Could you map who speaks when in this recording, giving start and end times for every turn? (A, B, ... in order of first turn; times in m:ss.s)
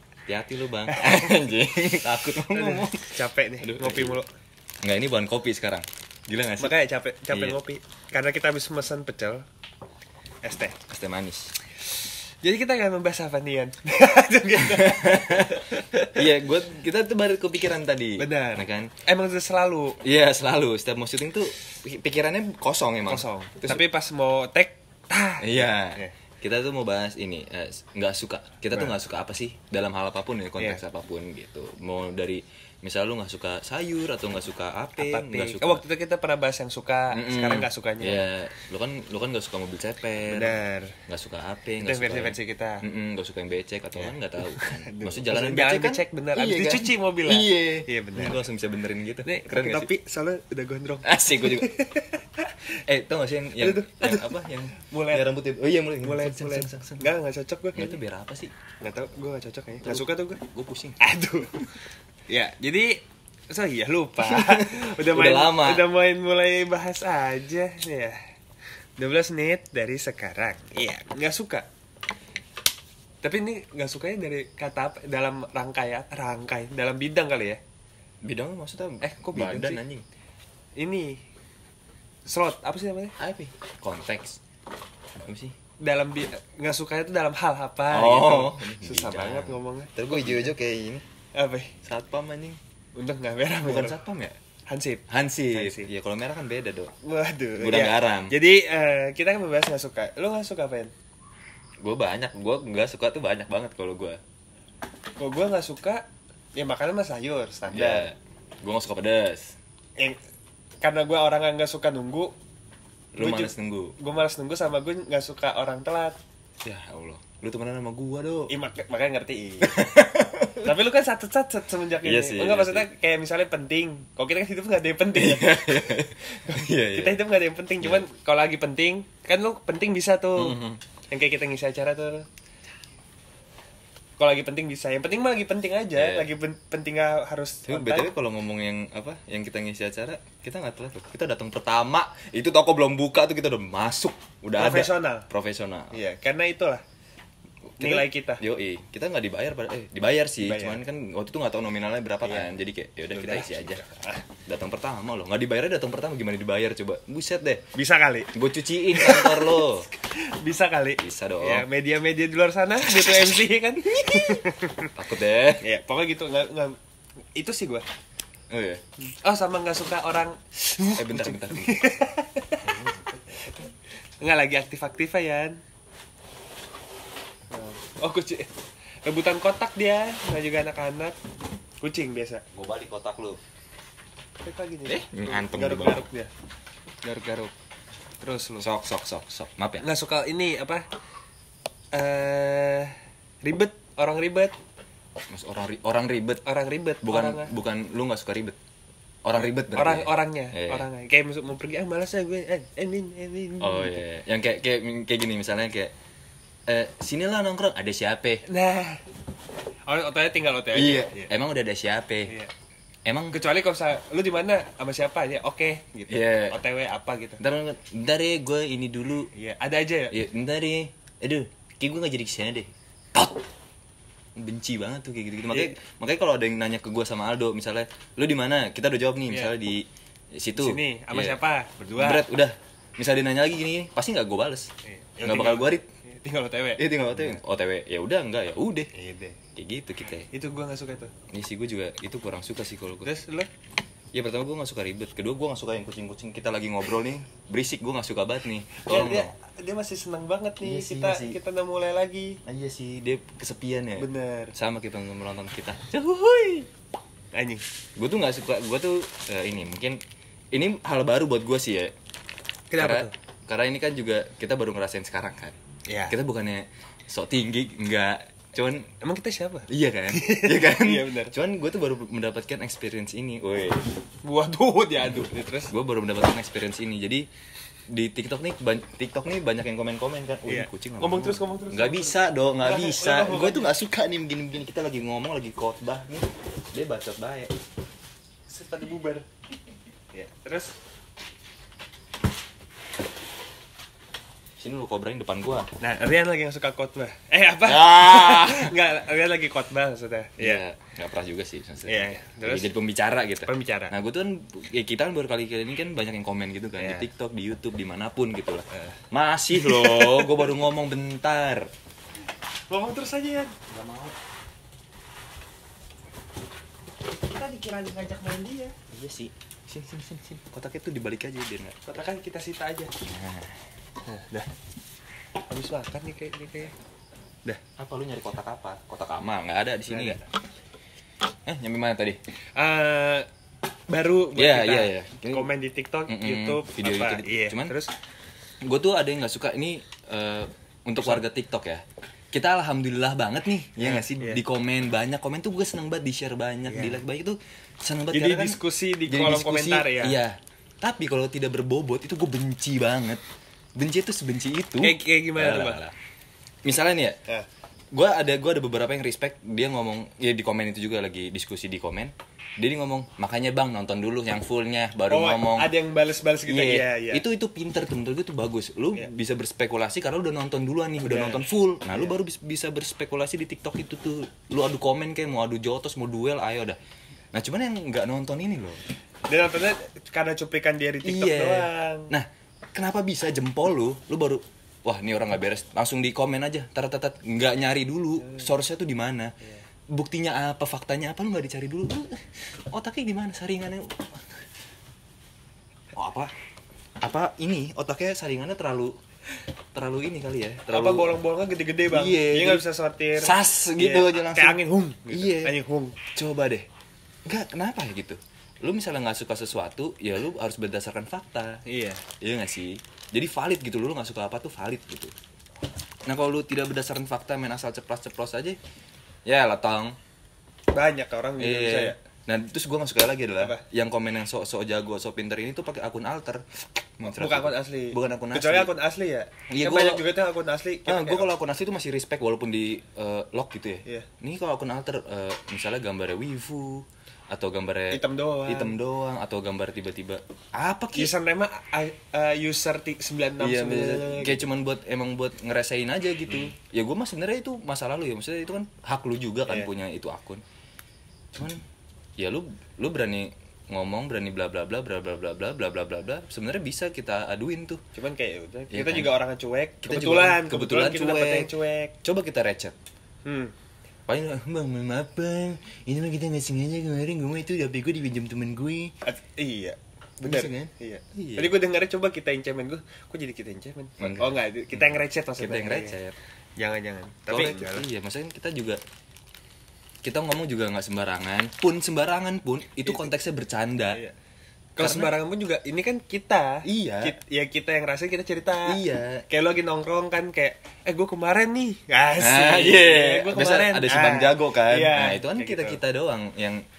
0:00.3-0:04.2 A
0:00.9-0:01.3 B
0:02.4-0:04.3 B
0:04.8-0:06.8 A
0:06.6-0:09.4 B
0:07.3-0:07.6 A
0:10.4-0:10.8 B
0:10.9-0:11.5 A
0:12.0-0:16.2 B
0:14.6-0:18.9 A
0:18.2-0:20.0 B
0:20.0-0:23.8 A
0:23.0-0:26.1 B
0:25.4-0:35.8 A
0:35.0-0:38.2 B
0:37.1-0:49.9 A
0:40.2-0:41.0 B
0:41.8-0:42.8 B
0:43.9-0:48.4 B
0:49.2-0:52.6 B
0:51.0-0:51.7 A
0:52.8-0:57.1 A
0:53.6-0:55.3 B
0:56.0-0:58.0 B
0:57.7-0:58.5 A
0:58.8-1:00.4 B
0:59.8-1:01.0 A
1:01.0-1:01.7 B
1:02.3-1:08.2 B
1:04.2-1:05.9 A
1:09.0-1:11.7 B
1:13.2-1:17.6 B
1:18.2-1:20.0 A
1:19.0-1:19.8 B
1:20.8-1:21.2 B
1:22.2-1:23.1 B
1:23.2-1:24.4 A
1:25.2-1:25.5 A
1:25.8-1:30.5 B
1:27.9-1:31.0 A
1:31.3-1:31.7 B
1:31.8-1:32.6 A
1:32.9-1:34.0 B
1:33.6-1:34.3 A
1:34.7-1:35.9 B
1:35.1-1:36.9 A
1:37.0-1:40.9 B
1:37.6-1:38.4 A
1:41.8-1:44.2 A
1:45.2-1:48.1 B
1:47.7-1:49.6 A
1:50.8-1:52.3 B
1:53.1-1:53.9 A
1:53.2-1:56.2 B
1:56.6-1:58.5 A
1:58.5-1:59.8 B
1:59.6-2:00.8 A
2:00.6-2:10.6 B
2:02.0-2:02.9 A
2:05.1-2:07.2 A
2:07.8-2:08.0 A
2:10.4-2:10.8 A
2:11.1-2:12.2 B
2:14.2-2:18.1 B
2:15.9-2:16.3 A
2:17.7-2:26.0 A
2:24.5-2:25.3 B
2:25.9-2:26.8 B
2:27.7-2:33.8 A
2:27.8-2:28.4 B
2:30.4-2:30.8 B
2:32.2-2:32.5 B
2:33.1-2:34.2 B
2:34.5-2:37.6 A
2:37.7-2:38.3 B
2:38.3-2:39.9 A
2:38.9-2:44.9 B
2:41.0-2:41.6 A
2:43.8-2:44.4 A
2:44.9-2:45.6 A
2:45.6-2:46.8 B
2:47.3-2:47.8 B
2:48.5-2:48.8 A
2:49.0-2:52.7 B
2:50.9-2:51.9 A
2:52.6-2:53.5 A
2:54.2-2:55.6 B
2:57.5-2:58.5 B
2:59.0-3:01.2 B
3:01.8-3:02.4 B
3:02.5-3:03.4 A
3:04.4-3:06.3 B
3:04.9-3:06.0 A
3:07.0-3:07.5 A
3:08.2-3:08.7 B
3:08.6-3:09.8 A
3:09.8-3:10.8 B
3:11.9-3:14.5 B
3:15.3-3:16.4 A
3:16.4-3:17.5 B
3:17.0-3:18.6 A
3:19.2-3:20.9 A
3:19.3-3:23.9 B
3:23.6-3:25.9 A
3:26.7-3:28.4 A
3:28.4-3:29.0 B
3:29.9-3:31.3 B
3:30.7-3:32.3 A
3:33.0-3:33.4 A
3:33.3-3:37.4 B
3:36.1-3:36.6 A
3:37.4-3:39.3 A
3:39.3-3:40.1 B
3:40.1-3:43.4 A
3:44.4-3:51.4 A
3:45.5-3:45.8 B
3:49.3-3:49.5 B
3:50.6-3:52.2 B
3:52.0-3:54.7 A
3:54.8-3:57.4 B
3:55.2-3:55.8 A
3:56.8-3:58.9 A
3:58.9-3:59.4 B
3:59.6-4:00.3 A
4:00.3-4:01.1 B
4:01.3-4:03.1 A
4:03.0-4:03.5 B
4:04.1-4:09.3 A
4:08.8-4:12.4 B
4:10.6-4:11.4 A
4:12.4-4:16.7 A
4:14.0-4:14.5 B
4:17.3-4:17.6 B
4:18.0-4:20.0 A
4:20.5-4:21.9 A
4:22.7-4:23.1 B
4:22.7-4:25.6 A
4:25.9-4:26.1 B
4:26.1-4:28.9 A
4:29.0-4:31.3 B
4:29.7-4:33.8 A
4:34.2-4:35.7 B
4:35.7-4:37.3 A
4:37.9-4:47.5 A
4:40.4-4:43.7 B
4:48.5-4:49.3 B
4:50.1-4:50.7 B
4:54.6-4:55.7 A
4:55.8-5:00.6 B
4:57.6-4:58.7 A
5:00.4-5:11.7 A
5:01.8-5:02.7 B
5:03.4-5:03.9 B
5:06.8-5:07.1 B
5:08.7-5:09.0 B
5:09.5-5:10.5 B
5:12.7-5:13.6 B
5:13.7-5:14.1 A
5:17.1-5:18.7 B
5:18.9-5:21.8 A
5:21.8-5:22.9 B
5:23.0-5:23.6 A
5:24.0-5:24.5 B
5:25.5-5:26.7 B
5:27.8-5:30.2 A
5:29.9-5:30.2 B
5:31.4-5:32.2 A
5:32.6-5:33.3 B
5:33.9-5:37.9 B
5:34.3-5:35.5 A
5:36.1-5:37.7 A
5:38.6-5:53.2 A
5:43.8-5:44.4 B
5:46.6-5:47.0 B
5:48.1-5:50.2 B
5:53.8-5:55.9 A
5:54.8-5:55.8 B
5:56.6-5:57.2 A
5:57.9-6:05.7 A
6:05.1-6:07.2 B
6:06.4-6:16.8 A
6:11.0-6:12.1 B
6:17.3-6:18.8 A
6:19.3-6:22.1 B
6:21.0-6:29.3 A
6:29.9-6:34.2 A
6:35.9-6:36.3 A
6:37.0-6:38.9 A
6:39.7-6:41.1 A
6:40.7-6:46.0 B
6:41.9-6:42.6 A
6:43.2-6:45.6 A
6:46.1-6:46.6 A
6:47.2-6:51.6 A
6:51.6-6:52.0 B
6:52.2-6:55.1 A
6:56.0-6:58.6 A
6:59.2-7:00.0 A
7:00.7-7:02.0 B
7:01.4-7:08.7 A
7:07.1-7:11.3 B
7:09.5-7:10.0 A
7:10.9-7:21.1 A
7:17.9-7:18.7 B
7:20.9-7:24.5 B
7:23.4-7:30.4 A
7:31.3-7:31.6 A
7:32.2-7:37.8 A
7:37.9-7:41.9 B
7:38.7-7:39.2 A
7:39.8-7:41.5 A
7:42.0-7:42.7 A
7:43.2-7:43.5 B
7:44.1-7:48.9 A
7:49.0-7:56.0 B
7:50.2-7:51.6 A
7:54.0-7:56.2 A
7:56.6-7:57.9 B
7:57.3-7:58.8 A
8:00.0-8:04.0 A
8:04.8-8:15.8 B
8:04.8-8:05.1 A
8:06.6-8:07.2 A
8:08.6-8:09.2 A
8:12.2-8:16.6 A